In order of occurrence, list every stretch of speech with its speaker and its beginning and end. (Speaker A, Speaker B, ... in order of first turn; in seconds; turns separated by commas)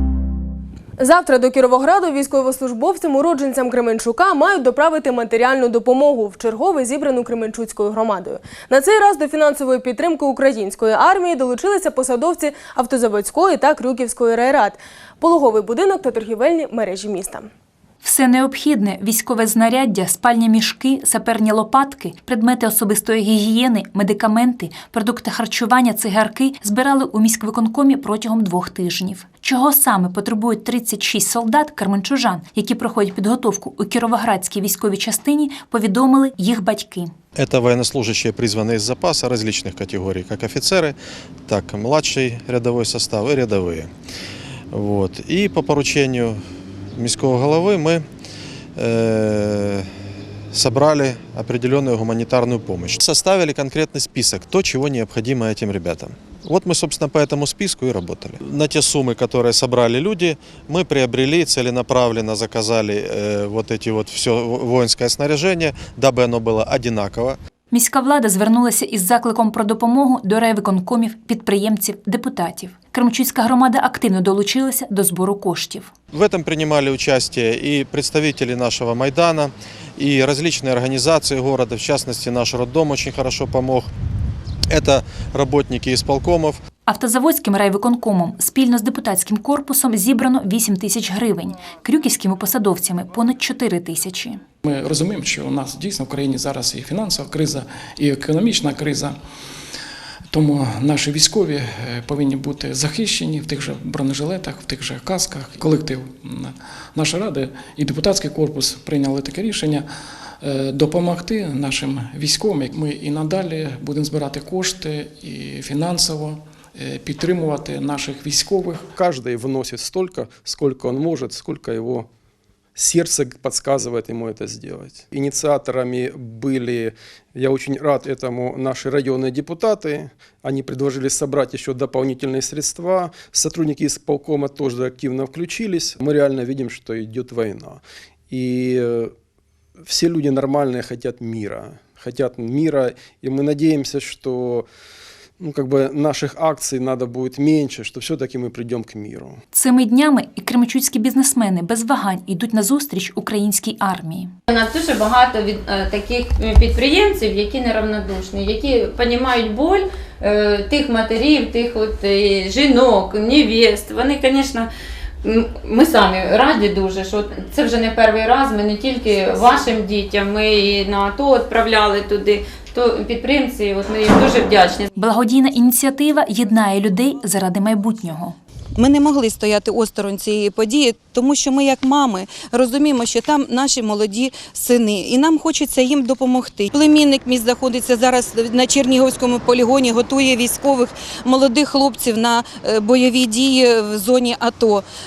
Speaker A: 1.0-17.5, Speaker B: 18.0-37.1, Speaker C: 37.4-41.0, Speaker C: 41.5-43.9, Speaker C: 44.7-46.4, Speaker C: 47.0-48.0, Speaker C: 48.8-49.9, Speaker C: 50.5-67.4, Speaker B: 67.7-75.9, Speaker C: 76.1-83.9, Speaker C: 84.7-86.6, Speaker B: 86.8-94.4, Speaker D: 94.6-99.2, Speaker D: 100.3-109.9, Speaker D: 110.4-118.9, Speaker E: 119.0-122.1, Speaker E: 122.8-139.1, Speaker E: 139.8-144.7, Speaker E: 145.4-149.4, Speaker B: 149.5-154.3, Speaker F: 154.5-164.7, Speaker F: 165.2-174.9, Speaker B: 174.9-178.3, Speaker G: 178.8-194.8